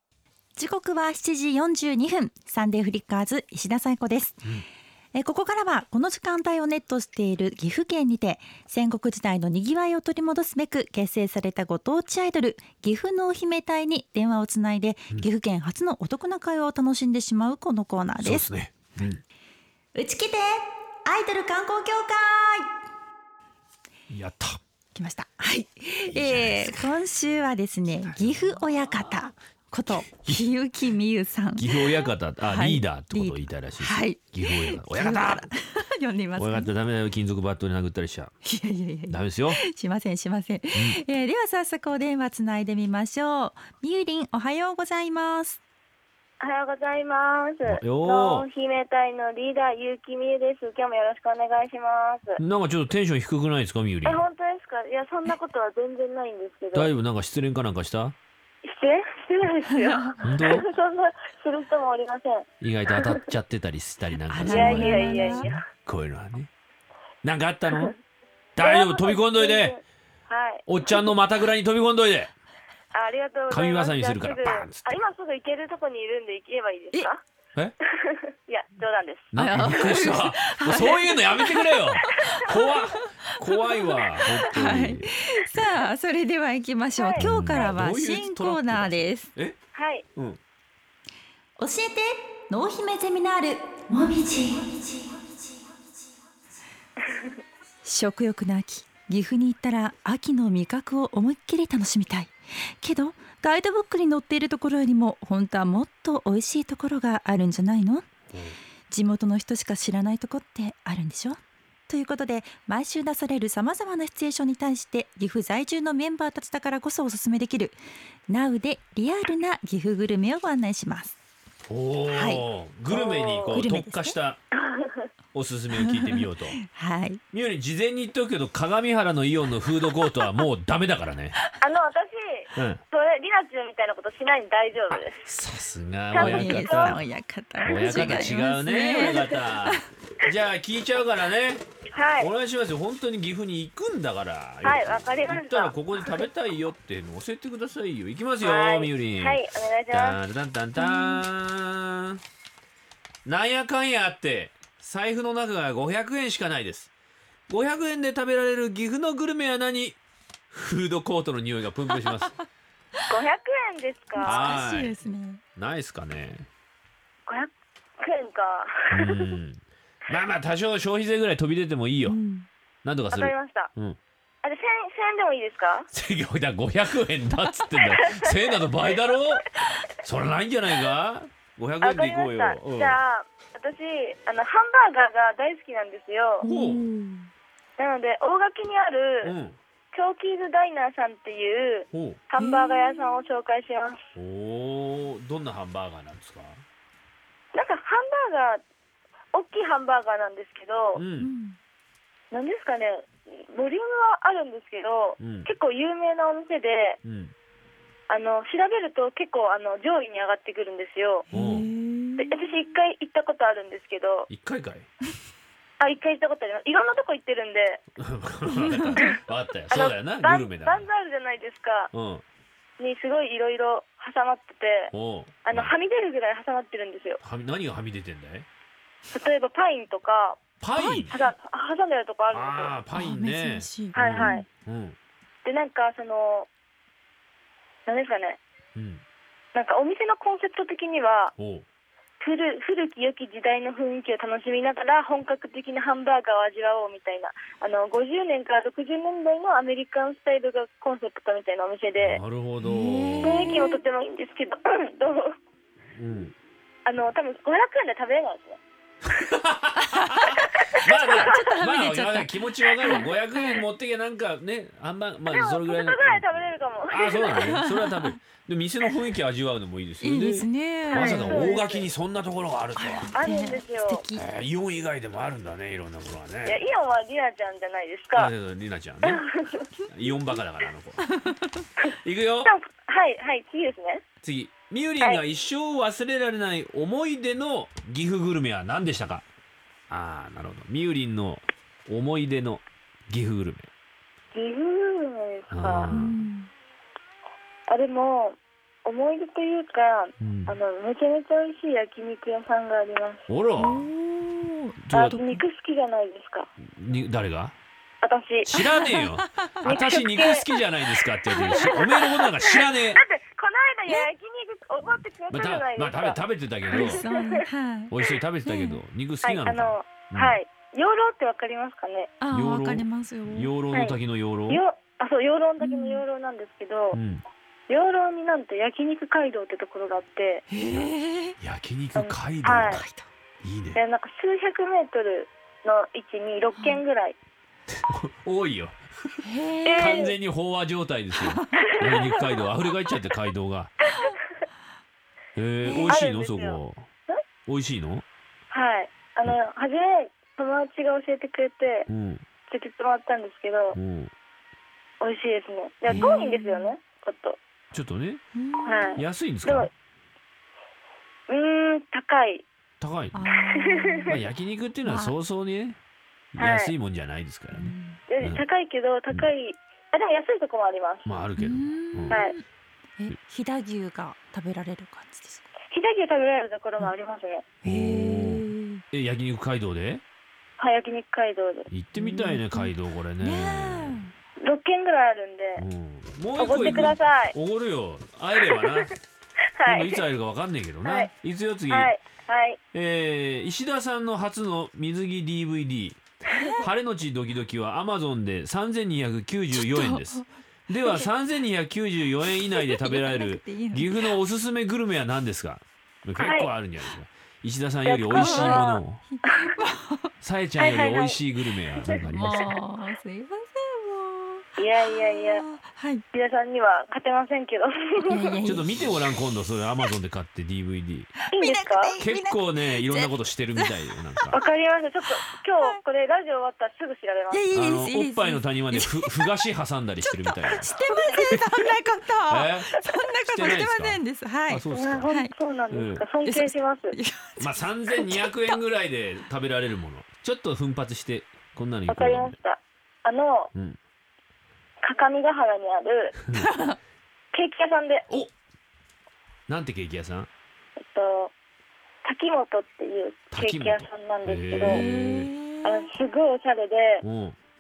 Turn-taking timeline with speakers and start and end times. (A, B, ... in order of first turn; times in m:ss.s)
0:00.6-0:04.5 A
0:05.2-0:18.5 A
0:18.2-0:19.2 B
0:20.0-0:22.7 A
0:24.1-0:24.6 B
0:24.9-0:36.7 A
0:26.1-0:26.9 B
0:28.0-0:29.3 B
0:29.9-0:30.5 B
0:31.6-0:35.5 B
0:36.4-0:38.4 B
0:38.4-0:45.6 A
0:39.1-0:39.6 B
0:40.7-0:41.0 B
0:46.4-0:52.4 C
0:47.6-0:48.5 B
0:52.4-0:54.3 B
0:54.0-0:56.9 C
0:56.7-0:58.2 B
0:58.6-1:02.5 C
1:00.2-1:00.7 B
1:02.6-1:06.5 B
1:04.3-1:05.5 A
1:04.5-1:05.6 C
1:07.2-1:07.9 B
1:07.7-1:08.0 C
1:08.6-1:09.8 B
1:08.6-1:11.0 C
1:10.7-1:12.3 B
1:12.9-1:17.2 C
1:13.5-1:15.0 B
1:17.9-1:19.3 C
1:19.3-1:25.9 B
1:19.4-1:21.5 A
1:23.6-1:29.3 A
1:27.0-1:27.3 C
1:27.2-1:29.6 B
1:29.7-1:30.0 C
1:31.6-1:35.4 A
1:37.8-1:48.1 A
1:48.3-1:48.6 B
1:48.9-2:01.2 A
2:01.7-2:04.4 B
2:02.1-2:02.4 A
2:02.9-2:03.6 C
2:03.5-2:04.2 A
2:04.6-2:05.1 C
2:05.3-2:06.6 B
2:06.7-2:07.2 A
2:07.3-2:11.4 B
2:11.6-2:15.2 C
2:12.6-2:12.8 B
2:14.9-2:17.0 B
2:16.1-2:17.0 C
2:16.2-2:19.8 A
2:17.6-2:21.6 B
2:17.7-2:18.3 C
2:18.9-2:19.2 C
2:21.9-2:22.3 C
2:22.2-2:32.2 B
2:24.6-2:26.2 C
2:28.4-2:30.2 C
2:30.8-2:31.2 A
2:33.3-2:36.9 B
2:37.5-2:40.0 B
2:40.5-2:42.4 B
2:43.1-2:44.6 C
2:44.2-2:45.0 B
2:44.2-2:45.4 A
2:45.6-2:46.5 B
2:47.3-2:49.4 C
2:48.9-2:52.2 B
2:52.0-2:52.5 A
2:52.8-2:54.0 B
2:53.1-2:53.7 C
2:54.4-2:55.9 C
2:55.9-2:59.5 B
2:58.0-2:58.3 C
3:00.0-3:03.0 B
3:01.8-3:06.5 C
3:06.4-3:07.3 A
3:06.4-3:06.8 B
3:07.8-3:09.3 C
3:09.2-3:09.6 B
3:09.9-3:14.0 C
3:11.9-3:12.2 B
3:12.4-3:13.3 A
3:14.2-3:16.6 B
3:17.5-3:18.6 C
3:19.3-3:21.0 C
3:21.0-3:21.3 B
3:21.2-3:21.6 A
3:22.3-3:27.0 C
3:25.2-3:25.5 B
3:27.0-3:27.3 B
3:28.1-3:31.3 C
3:31.3-3:31.7 B
3:31.3-3:32.6 A
3:32.2-3:34.3 C
3:34.3-3:34.9 B
3:35.8-3:37.8 C
3:38.0-3:40.9 B
3:39.7-3:41.9 C
3:41.9-3:42.2 B
3:42.8-3:44.9 C
3:44.9-3:45.7 B
3:45.4-3:47.2 C
3:47.2-3:48.5 B
3:49.1-3:50.4 C
3:50.6-3:51.2 B
3:50.8-3:51.1 A
3:51.1-3:52.8 C
3:52.3-3:55.0 B
3:52.9-3:54.4 A
3:53.9-3:54.4 C
3:55.4-3:56.5 C
3:57.9-3:58.4 C
3:58.8-3:59.0 B
3:59.5-4:01.3 C
4:01.4-4:01.7 B
4:02.2-4:12.2 C
4:12.0-4:13.5 B
4:12.6-4:13.8 A
4:13.2-4:15.3 C
4:16.0-4:16.4 B
4:16.8-4:18.6 C
4:19.3-4:20.0 B
4:20.0-4:20.3 A
4:20.7-4:33.1 B
4:20.9-4:21.5 C
4:21.2-4:23.1 A
4:25.3-4:27.5 C
4:27.4-4:28.2 A
4:30.0-4:31.5 A
4:30.9-4:31.9 C
4:32.8-4:34.2 A
4:33.1-4:34.0 C
4:34.2-4:36.7 B
4:36.4-4:38.3 C
4:38.2-4:39.2 B
4:39.0-4:39.6 C
4:39.8-4:41.1 B
4:41.9-4:42.5 B
4:42.4-4:44.0 C
4:44.2-4:49.2 B
4:49.9-4:53.7 B
4:54.3-4:56.0 C
4:55.5-4:56.2 B
4:55.9-4:56.5 A
4:57.7-5:03.3 C
5:00.2-5:00.6 B
5:03.3-5:03.9 B
5:03.6-5:05.4 A
5:04.8-5:05.2 B
5:04.9-5:06.5 C
5:06.6-5:07.6 B
5:08.0-5:08.6 C
5:08.5-5:13.0 B
5:08.5-5:09.4 A
5:09.6-5:10.5 C
5:11.4-5:17.4 C
5:14.8-5:17.0 B
5:16.7-5:17.9 A
5:17.9-5:20.4 B
5:18.4-5:18.8 A
5:19.2-5:22.1 C
5:22.2-5:23.6 A
5:22.3-5:24.6 B
5:23.7-5:24.0 C
5:24.5-5:27.0 C
5:25.6-5:26.0 A
5:26.9-5:27.2 B
5:27.7-5:30.5 C
5:30.5-5:31.4 A
5:31.4-5:32.8 B
5:32.0-5:32.8 C
5:32.6-5:33.1 A
5:33.4-5:33.8 B
5:33.8-5:37.2 C
5:36.5-5:36.8 A
5:37.7-5:38.8 B
5:39.2-5:40.0 A
5:39.6-5:40.2 C
5:39.7-5:43.9 B
5:41.3-5:41.7 A
5:41.8-5:42.4 C
5:43.9-5:44.2 C
5:45.4-5:46.9 B
5:45.6-5:46.0 A
5:45.9-5:47.2 C
5:47.5-5:48.0 B
5:48.5-5:51.9 C
5:51.9-5:52.2 B
5:52.5-5:53.8 C
5:53.7-5:54.1 B
5:55.0-5:57.4 C
5:55.9-5:56.1 B
5:55.9-5:56.8 A
5:57.7-5:58.2 B
5:58.4-5:59.0 A
5:58.6-5:59.7 C
5:59.0-5:59.7 B
6:01.3-6:02.4 C
6:02.8-6:03.3 B
6:03.1-6:04.2 A
6:03.4-6:04.2 C
6:04.1-6:05.8 B
6:04.8-6:05.1 A
6:06.3-6:08.4 B
6:06.4-6:06.7 C
6:07.5-6:08.0 A
6:08.1-6:11.1 C
6:11.0-6:12.2 B
6:11.4-6:12.4 A
6:12.1-6:12.3 C
6:13.0-6:15.5 A
6:15.7-6:17.5 C
6:17.6-6:18.8 A
6:17.6-6:20.0 B
6:20.6-6:21.7 C
6:21.7-6:24.0 B
6:22.0-6:24.1 A
6:24.4-6:25.6 C
6:25.6-6:28.9 B
6:26.4-6:27.3 C
6:26.6-6:26.9 A
6:29.6-6:30.0 C
6:29.6-6:31.9 B
6:30.8-6:31.1 C
6:31.7-6:32.6 C
6:32.7-6:49.0 B
6:36.3-6:36.6 A
6:39.5-6:40.3 A
6:42.7-6:43.9 A
6:46.2-6:46.5 C
6:47.9-6:48.8 C
6:48.1-6:50.1 A
6:50.2-6:52.6 B
6:50.6-6:51.2 C
6:51.8-6:52.3 C
6:52.1-6:56.0 A
6:54.6-6:55.4 C
6:56.1-6:58.4 C
6:58.0-6:59.0 A
6:58.4-7:01.1 B
7:01.2-7:03.7 A
7:01.3-7:02.0 C
7:02.0-7:04.4 B
7:04.3-7:07.4 C
7:07.3-7:09.3 A
7:07.5-7:10.7 B
7:10.0-7:15.3 A
7:10.9-7:11.3 C
7:12.2-7:15.1 B
7:14.7-7:17.0 C
7:15.7-7:16.0 B
7:16.2-7:18.6 A
7:17.4-7:22.4 B
7:21.9-7:23.5 C
7:24.8-7:26.2 C
7:26.4-7:26.8 A
7:27.3-7:28.1 C
7:29.5-7:30.3 B
7:30.8-7:31.3 C
7:32.0-7:34.8 C
7:33.3-7:35.3 B
7:34.6-7:35.9 A
7:35.6-7:37.0 C
7:37.0-7:37.4 B